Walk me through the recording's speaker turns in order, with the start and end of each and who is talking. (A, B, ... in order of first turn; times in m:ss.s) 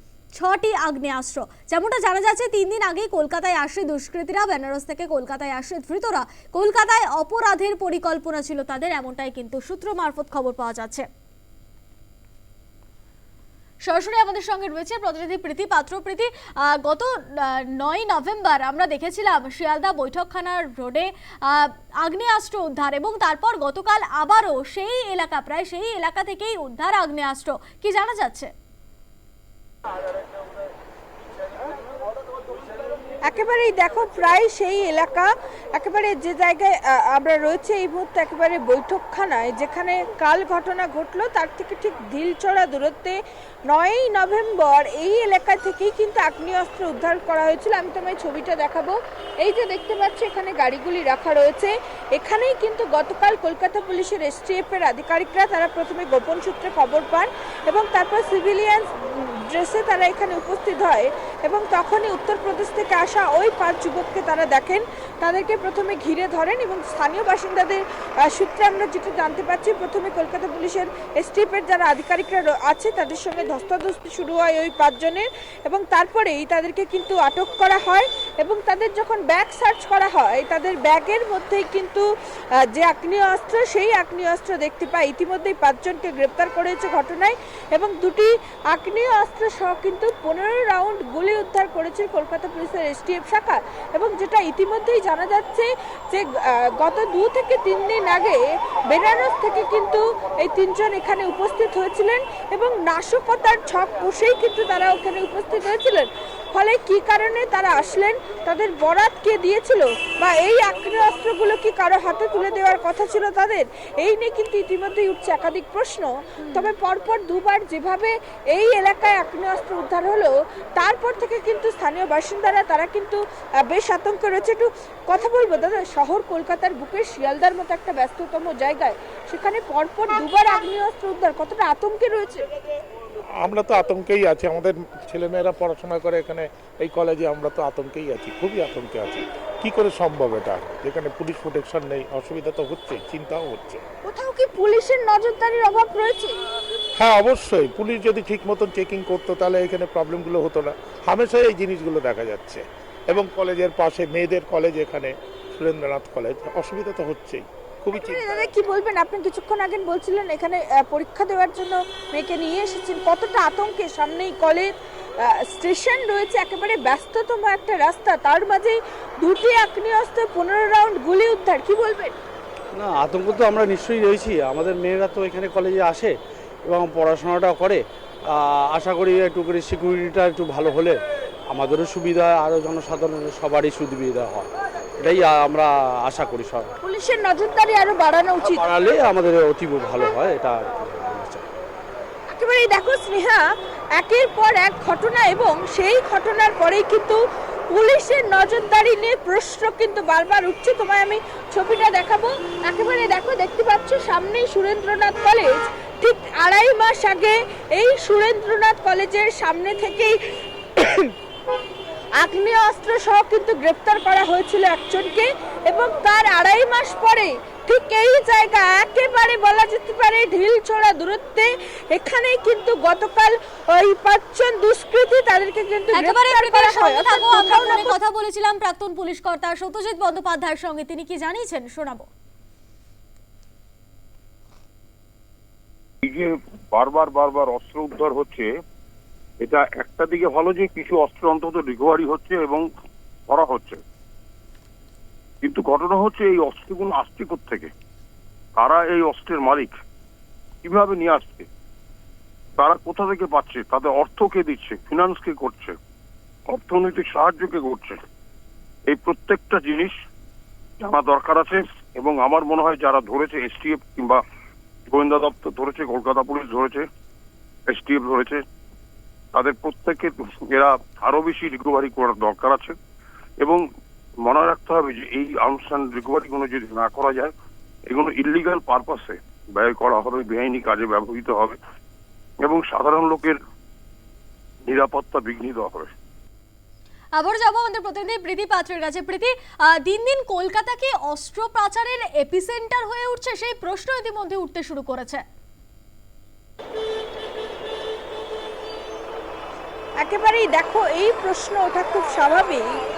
0:00.4-0:11.1 A
0:13.8-0:16.3 A
0:16.8-0:28.5 A
0:33.3-1:22.0 B
1:22.6-2:12.5 B
2:13.4-2:23.8 C
2:24.0-2:26.4 B
2:27.0-2:38.4 C
2:37.9-2:52.2 B
2:52.8-2:56.1 D
2:56.7-2:57.8 D
2:58.3-3:01.0 D
3:01.5-3:04.5 D
3:05.0-3:06.7 D
3:06.8-3:08.7 B
3:08.5-3:11.4 D
3:12.3-3:17.2 B
3:17.7-3:30.2 B
3:30.8-3:31.1 B
3:32.2-3:48.0 B
3:45.9-3:52.1 A
3:56.0-3:58.5 E
3:59.4-4:02.6 E
4:03.3-4:03.8 E
4:05.4-4:07.7 E
4:08.6-4:09.7 E
4:10.6-4:11.5 E
4:12.6-4:15.8 E
4:16.5-4:18.0 E
4:18.9-4:19.9 E
4:20.8-4:24.2 E
4:24.9-4:26.8 E
4:27.7-4:28.4 E
4:29.4-4:32.8 E
4:34.2-4:37.3 E
4:37.9-4:41.6 E
4:42.4-4:43.4 E
4:44.7-4:45.9 E
4:47.2-4:55.2 A
5:00.0-5:02.7 B